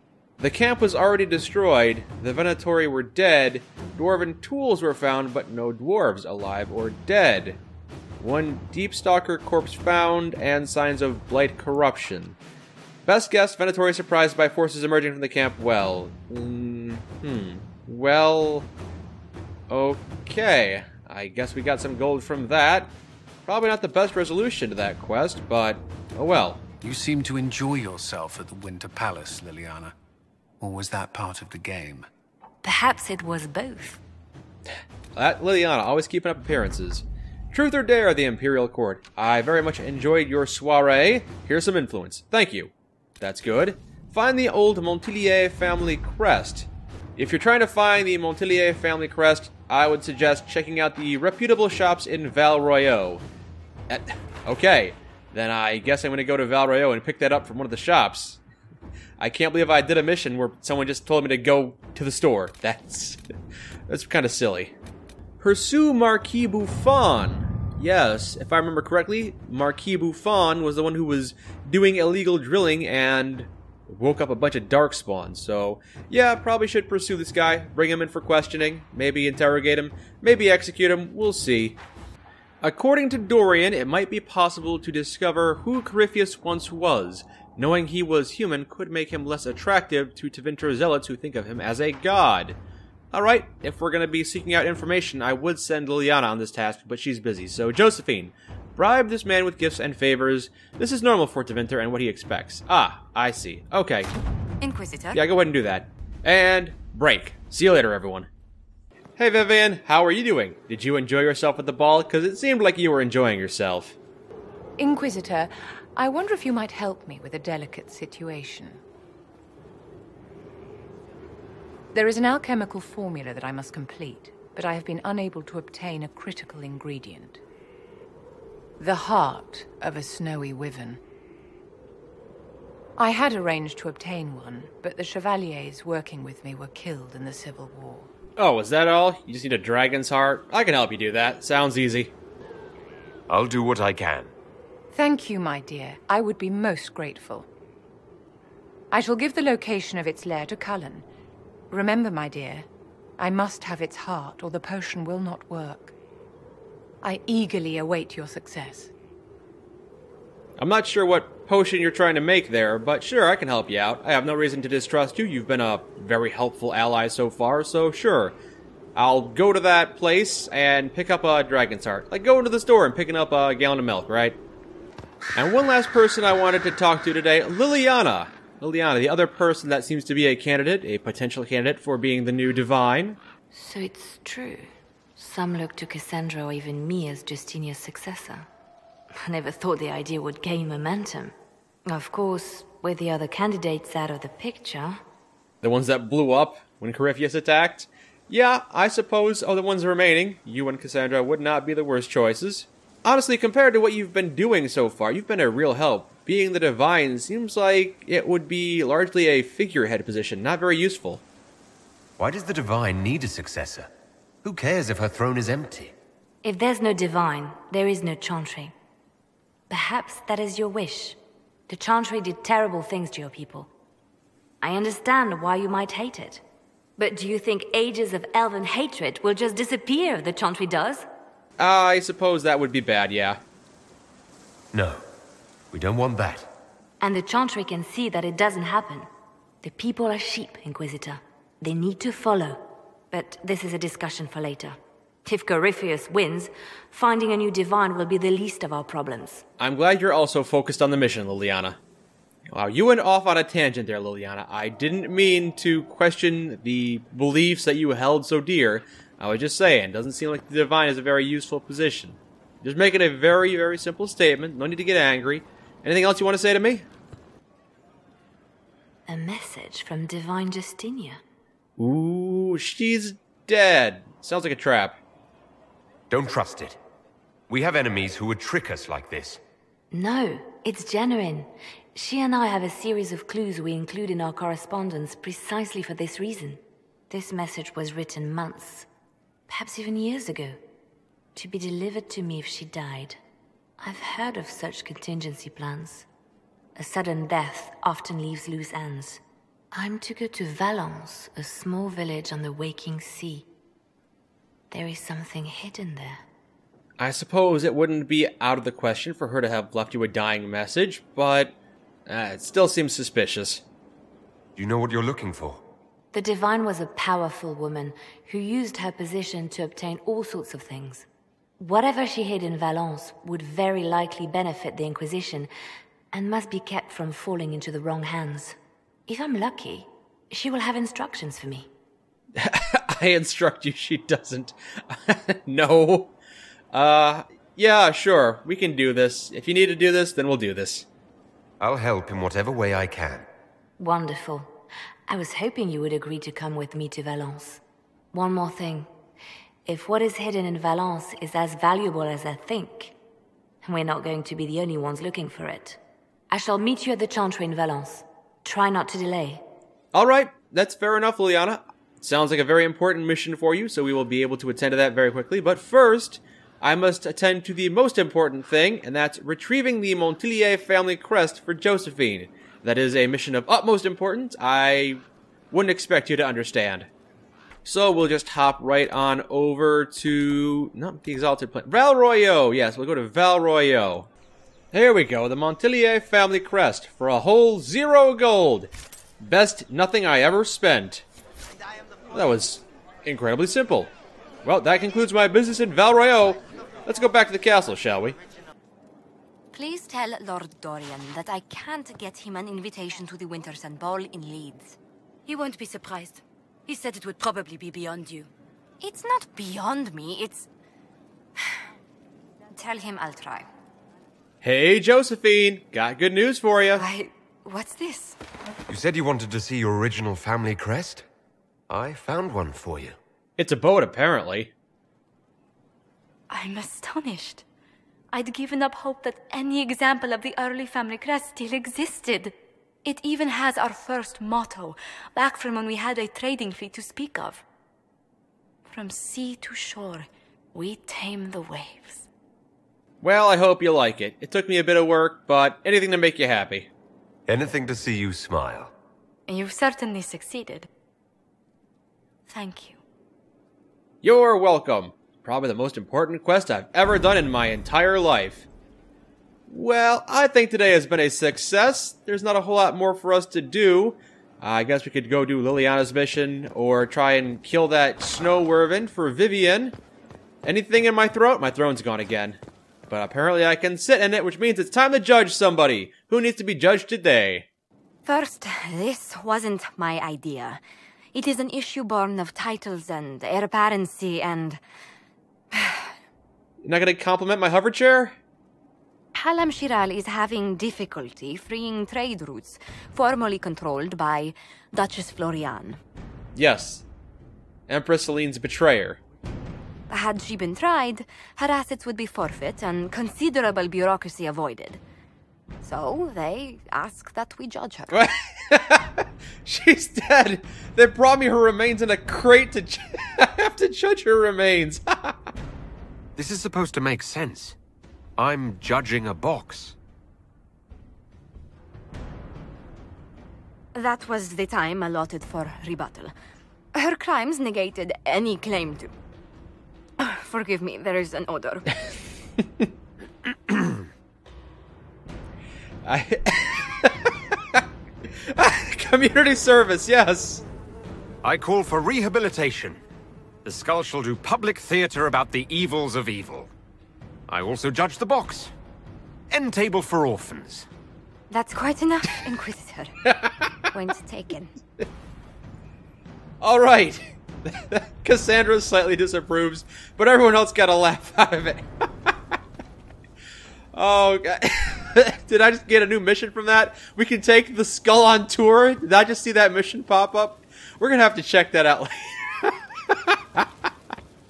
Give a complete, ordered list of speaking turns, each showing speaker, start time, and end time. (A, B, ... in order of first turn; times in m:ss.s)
0:00.4-0:07.6 A
0:08.2-0:12.4 A
0:13.1-0:18.7 A
0:19.7-0:22.9 A
0:23.5-0:26.6 A
0:26.8-0:29.9 B
0:30.6-0:32.1 B
0:32.6-0:34.0 C
0:35.1-0:53.2 A
0:53.9-0:58.4 A
0:59.2-1:03.2 A
1:03.9-1:04.7 A
1:05.4-1:21.8 A
1:22.6-1:32.6 A
1:33.1-1:44.1 A
1:44.6-1:45.2 D
1:45.1-1:48.3 A
1:49.2-1:54.0 A
1:54.8-1:58.8 E
2:01.9-2:07.4 E
2:08.8-2:11.0 E
2:13.0-2:18.1 E
2:18.4-2:22.1 A
2:23.3-2:24.3 F
2:24.9-2:27.5 E
2:28.9-2:31.1 E
2:31.7-2:36.0 E
2:37.0-2:38.9 E
2:40.6-2:48.4 A
2:49.0-2:54.4 A
2:55.4-3:03.2 A
3:03.5-3:08.5 C
3:09.2-3:11.4 C
3:11.9-3:15.0 C
3:15.6-3:31.2 A
3:32.2-3:33.9 F
3:34.4-3:36.0 F
3:36.4-3:38.7 C
3:39.7-3:43.7 C
3:44.6-3:46.4 C
3:47.0-3:51.1 C
3:51.6-3:53.4 A
3:54.7-3:55.0 F
3:55.7-3:56.5 F
3:57.0-3:59.1 C
3:59.6-4:09.4 C
4:09.6-4:11.8 A
4:12.5-4:26.9 A
4:29.1-4:31.2 C
4:31.8-4:35.0 A
4:36.1-4:36.8 F
4:37.5-4:39.4 F
4:39.9-4:48.9 C
4:49.5-4:50.6 C
4:51.4-4:53.2 C
4:53.8-4:56.1 C
4:56.8-4:59.2 C
4:59.7-5:03.5 C
5:04.7-5:06.2 C
5:07.0-5:11.6 A
5:12.1-5:13.6 A
5:14.6-5:15.6 F
5:16.1-5:21.1 C
5:21.6-5:25.5 C
5:26.1-5:28.6 C
5:29.1-5:31.7 C
5:32.4-5:36.1 A
5:36.7-5:40.9 A
5:41.6-5:43.3 F
5:43.8-5:44.5 C
5:45.1-5:47.6 C
5:48.1-5:48.9 C
5:49.7-5:53.0 C
5:53.6-5:59.4 C
5:59.9-6:16.9 A
6:17.7-6:24.1 A
6:24.7-6:31.0 A
6:32.1-6:33.9 A
6:34.4-6:38.2 A
6:39.5-6:50.5 D
6:52.5-6:53.5 D
6:54.4-6:56.8 A
6:56.8-6:58.2 D
6:58.7-7:01.0 F
7:01.7-7:03.0 F
7:03.4-7:04.5 A
7:06.3-7:07.4 D
7:08.1-7:17.4 D
7:18.7-7:22.0 D
7:23.0-7:26.7 A
7:27.3-7:28.7 F
7:29.3-7:30.7 D
7:32.3-7:32.8 D
7:34.0-7:38.5 A
7:39.5-7:49.8 A
7:50.4-7:57.5 A
7:58.0-8:00.6 D
8:01.1-8:04.6 D
8:05.5-8:05.9 D
8:06.6-8:08.2 A
8:09.1-8:15.8 D
8:16.4-8:16.8 A
8:17.7-8:19.0 A
8:19.9-8:24.8 D
8:25.6-8:28.0 D
8:27.9-8:35.3 A
8:36.2-8:37.6 F
8:38.2-8:39.8 F
8:43.8-8:46.1 D
8:46.7-8:48.9 D
8:50.0-8:51.7 D
8:53.5-8:53.9 F
8:55.8-8:57.6 A
8:58.2-9:00.4 A
9:01.2-9:02.8 F
9:03.4-9:06.5 F
9:07.3-9:08.5 F
9:09.3-9:10.7 F
9:11.3-9:12.9 D
9:13.7-9:14.5 D
9:16.4-9:21.6 A
9:23.7-9:33.7 A